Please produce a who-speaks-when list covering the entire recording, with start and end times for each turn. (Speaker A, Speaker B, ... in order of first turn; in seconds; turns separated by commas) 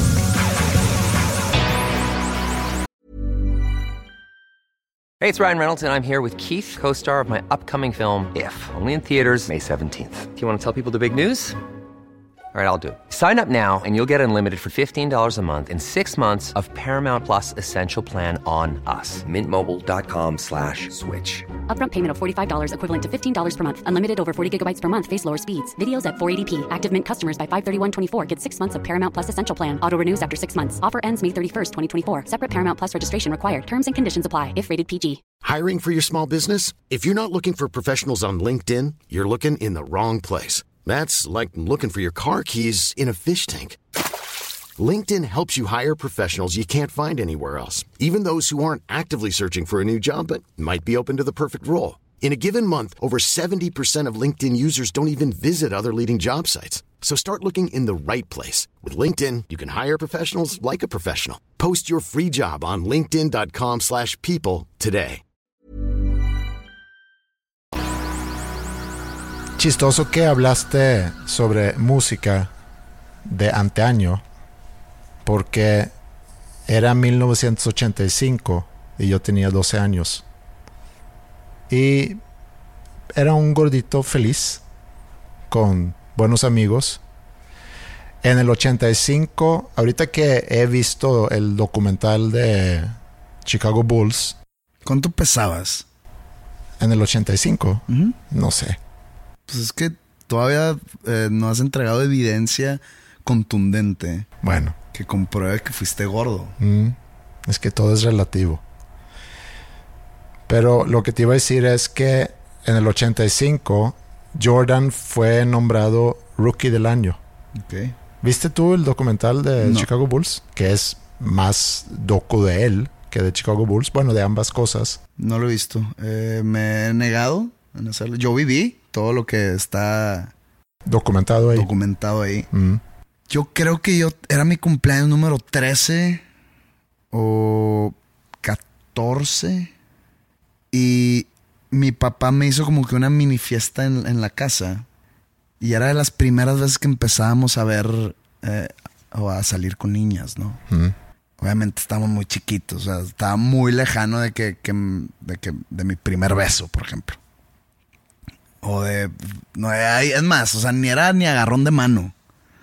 Speaker A: 5.2-11.6, Speaker A: 12.5-21.5, Speaker B: 21.7-35.2, Speaker C: 35.4-43.8, Speaker C: 44.8-65.2, Speaker D: 69.6-72.5, Speaker D: 73.3-74.2, Speaker D: 75.2-75.9, Speaker D: 76.7-80.2, Speaker D: 81.7-82.2, Speaker D: 83.2-84.6, Speaker D: 85.5-87.0, Speaker D: 88.2-94.4, Speaker E: 94.8-95.8, Speaker D: 96.8-98.8, Speaker E: 97.9-98.2, Speaker E: 99.5-104.3, Speaker D: 104.4-104.8, Speaker E: 104.9-106.5, Speaker D: 106.6-108.6, Speaker D: 110.5-117.2, Speaker E: 117.6-118.0, Speaker D: 118.2-125.0, Speaker E: 119.6-119.9, Speaker E: 125.2-130.3, Speaker D: 130.8-131.7, Speaker E: 131.5-132.5, Speaker D: 132.5-132.8, Speaker E: 133.3-136.2, Speaker E: 137.1-139.7, Speaker E: 140.7-144.8, Speaker E: 145.6-150.6, Speaker D: 150.7-150.9, Speaker E: 151.4-157.2, Speaker E: 158.6-162.1